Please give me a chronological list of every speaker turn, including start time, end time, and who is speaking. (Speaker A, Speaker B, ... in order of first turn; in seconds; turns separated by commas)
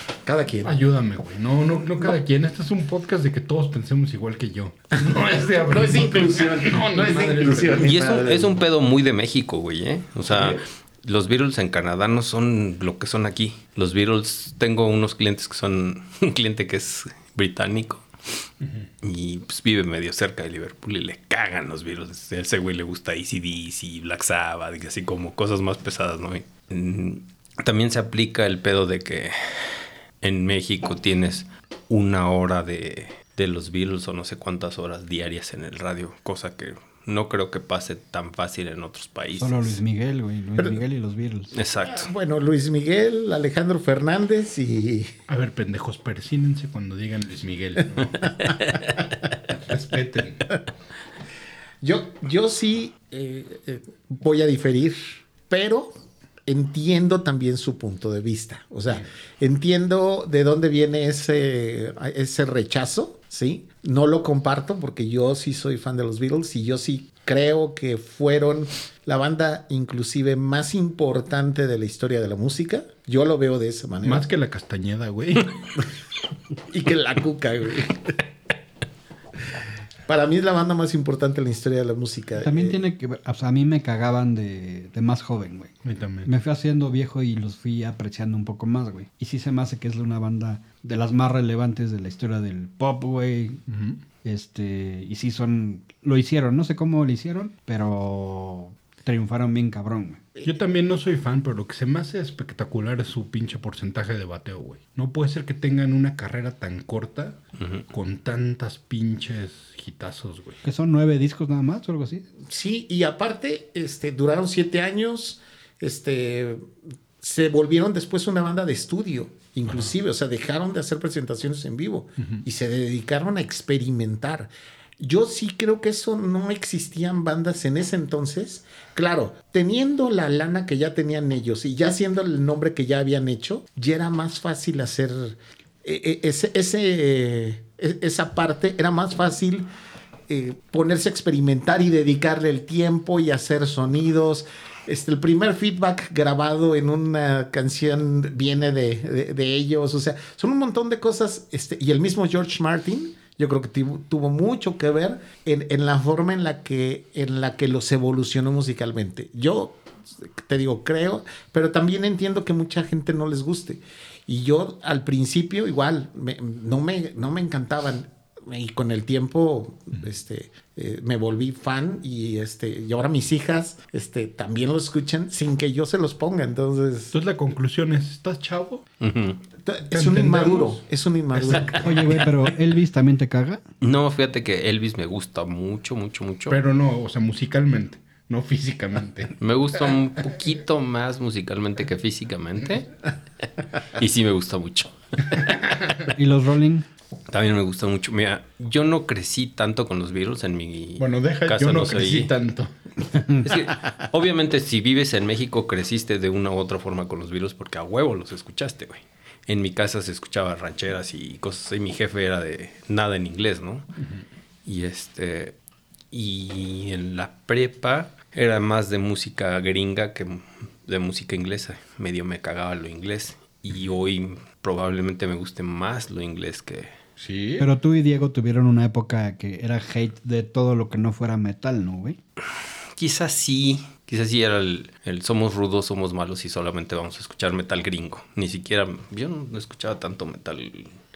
Speaker A: 0.2-0.7, Speaker B: 0.6-8.2, Speaker A: 5.7-8.5, Speaker C: 7.7-18.1, Speaker B: 10.2-10.6, Speaker B: 18.6-18.9, Speaker C: 19.0-39.8, Speaker D: 39.4-41.5, Speaker C: 41.5-42.1, Speaker A: 41.8-45.1, Speaker B: 45.3-48.4, Speaker A: 48.2-48.8, Speaker C: 48.5-48.8, Speaker B: 49.5-50.5, Speaker A: 51.8-74.2, Speaker B: 74.0-75.7, Speaker A: 76.7-78.2, Speaker A: 80.0-82.8, Speaker D: 82.4-85.7, Speaker B: 85.8-86.3, Speaker D: 86.2-93.6, Speaker B: 93.7-94.0, Speaker D: 94.2-100.2, Speaker B: 100.4-107.4, Speaker B: 107.9-110.6, Speaker D: 110.6-112.2, Speaker A: 112.5-139.7, Speaker A: 140.3-177.1, Speaker B: 177.1-178.8, Speaker C: 179.0-179.4, Speaker A: 179.6-182.2, Speaker B: 179.9-182.1, Speaker D: 181.7-183.6, Speaker C: 183.8-186.6, Speaker B: 186.5-189.3, Speaker C: 189.4-192.9, Speaker C: 193.9-195.6, Speaker D: 196.1-196.8, Speaker C: 197.3-202.3, Speaker B: 201.0-202.7, Speaker C: 203.4-213.9, Speaker C: 214.7-215.6, Speaker C: 216.1-226.9, Speaker B: 227.2-227.7, Speaker D: 227.6-232.2, Speaker C: 232.9-240.9